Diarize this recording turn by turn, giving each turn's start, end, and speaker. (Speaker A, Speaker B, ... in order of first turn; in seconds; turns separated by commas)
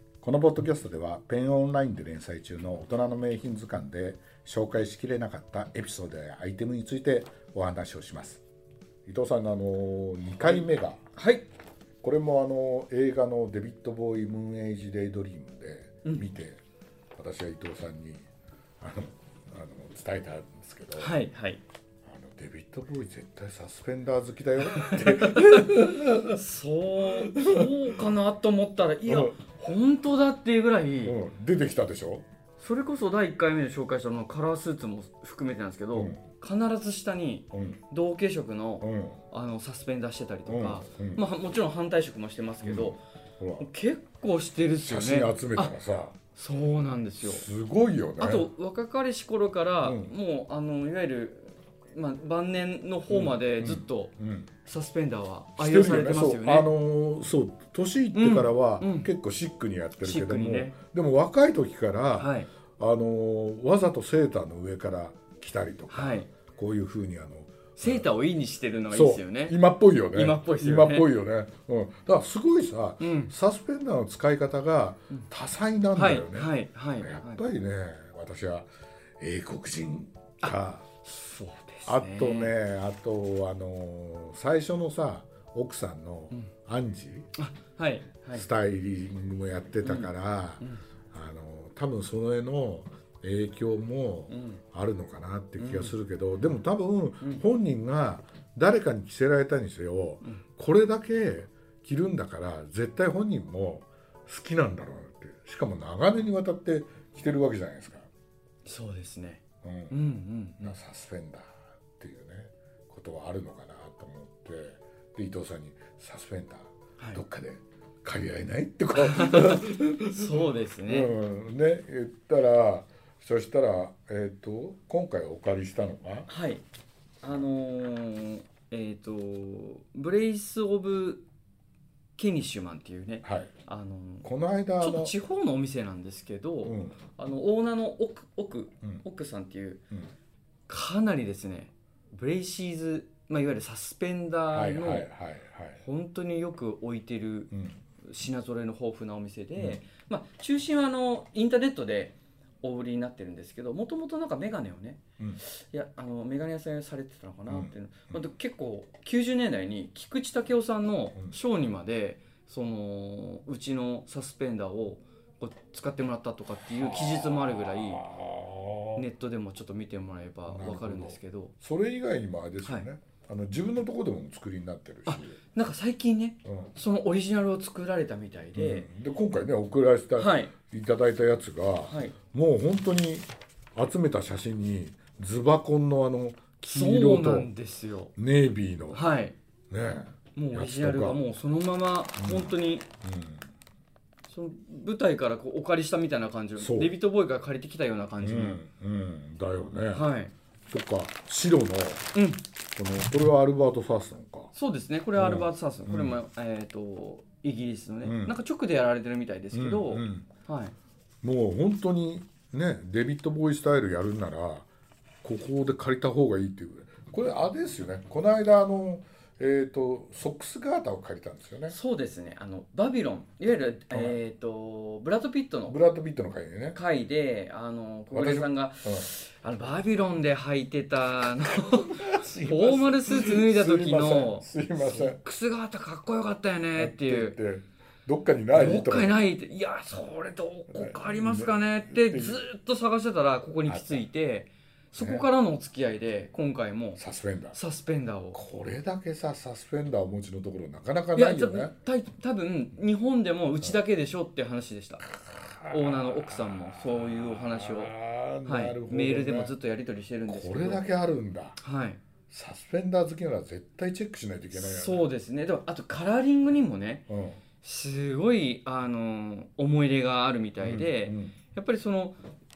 Speaker A: 0.2-8.4, Speaker A: 9.0-11.0, Speaker B: 10.4-11.4, Speaker A: 12.0-16.6, Speaker A: 17.1-18.2, Speaker A: 18.8-21.1, Speaker B: 21.0-21.6, Speaker A: 22.0-26.4, Speaker B: 24.6-31.1, Speaker A: 27.0-27.9, Speaker A: 29.1-29.4, Speaker A: 31.0-32.2, Speaker B: 32.6-43.0, Speaker A: 35.9-36.2, Speaker A: 37.5-37.8, Speaker A: 38.8-39.2, Speaker A: 40.5-41.2, Speaker A: 42.6-43.7, Speaker B: 43.6-45.8, Speaker A: 44.8-46.1, Speaker B: 46.3-47.4, Speaker A: 47.2-48.5, Speaker B: 48.2-56.7, Speaker A: 49.8-50.1, Speaker A: 53.1-54.5, Speaker A: 55.6-68.1, Speaker B: 58.1-59.1, Speaker B: 60.0-60.8, Speaker B: 62.2-62.5, Speaker B: 65.9-66.3, Speaker B: 67.8-69.6, Speaker A: 68.9-78.7, Speaker B: 70.1-71.1, Speaker B: 73.0-73.3, Speaker B: 75.9-77.4, Speaker A: 79.2-80.8, Speaker B: 81.0-82.5, Speaker A: 81.8-87.3, Speaker B: 87.4-88.5, Speaker A: 88.3-108.1, Speaker B: 89.8-90.1, Speaker B: 94.3-94.6, Speaker B: 95.6-95.9, Speaker B: 108.6-110.8, Speaker A: 109.6-110.0, Speaker A: 110.6-126.3, Speaker B: 118.9-121.1, Speaker B: 126.3-126.6, Speaker B: 127.2-131.2, Speaker B: 132.2-134.3, Speaker A: 133.2-133.5, Speaker A: 134.2-135.1, Speaker B: 134.8-139.8, Speaker A: 136.6-137.0, Speaker B: 140.7-145.1, Speaker A: 144.5-145.8, Speaker B: 145.8-147.5, Speaker A: 147.5-147.8, Speaker B: 148.0-168.1, Speaker A: 157.5-158.3, Speaker A: 166.8-169.0, Speaker B: 168.9-171.5, Speaker A: 170.5-175.4, Speaker B: 175.1-178.9, Speaker A: 176.4-176.7, Speaker A: 178.5-187.5, Speaker B: 180.2-180.5, Speaker B: 181.8-182.2, Speaker B: 186.7-188.1, Speaker A: 188.2-189.0, Speaker B: 188.9-189.3, Speaker A: 189.7-191.2, Speaker B: 190.3-192.8, Speaker A: 192.2-193.5, Speaker B: 194.3-198.6, Speaker A: 196.6-196.9, Speaker A: 198.2-200.1, Speaker B: 199.9-200.3, Speaker A: 200.7-202.1, Speaker B: 202.1-202.4, Speaker A: 202.8-204.5, Speaker B: 204.5-210.7, Speaker A: 205.1-206.2, Speaker A: 208.0-208.3, Speaker A: 209.5-210.3, Speaker A: 211.2-214.7, Speaker A: 215.2-221.8, Speaker B: 221.7-225.8, Speaker A: 223.9-224.2, Speaker A: 225.7-226.8, Speaker B: 226.7-237.4, Speaker A: 228.1-229.1, Speaker A: 231.6-235.2, Speaker A: 236.7-239.2, Speaker B: 238.5-247.0, Speaker A: 240.7-242.4, Speaker A: 243.6-244.1, Speaker A: 244.9-245.3, Speaker A: 247.0-247.6, Speaker B: 247.5-248.4, Speaker A: 248.3-251.7, Speaker B: 251.1-255.0, Speaker A: 255.1-259.5, Speaker B: 255.7-257.9, Speaker B: 258.4-260.8, Speaker A: 260.3-261.6, Speaker B: 261.6-262.0, Speaker A: 262.3-265.1, Speaker B: 264.5-267.1, Speaker A: 267.1-267.4, Speaker B: 267.6-272.2, Speaker A: 270.6-271.4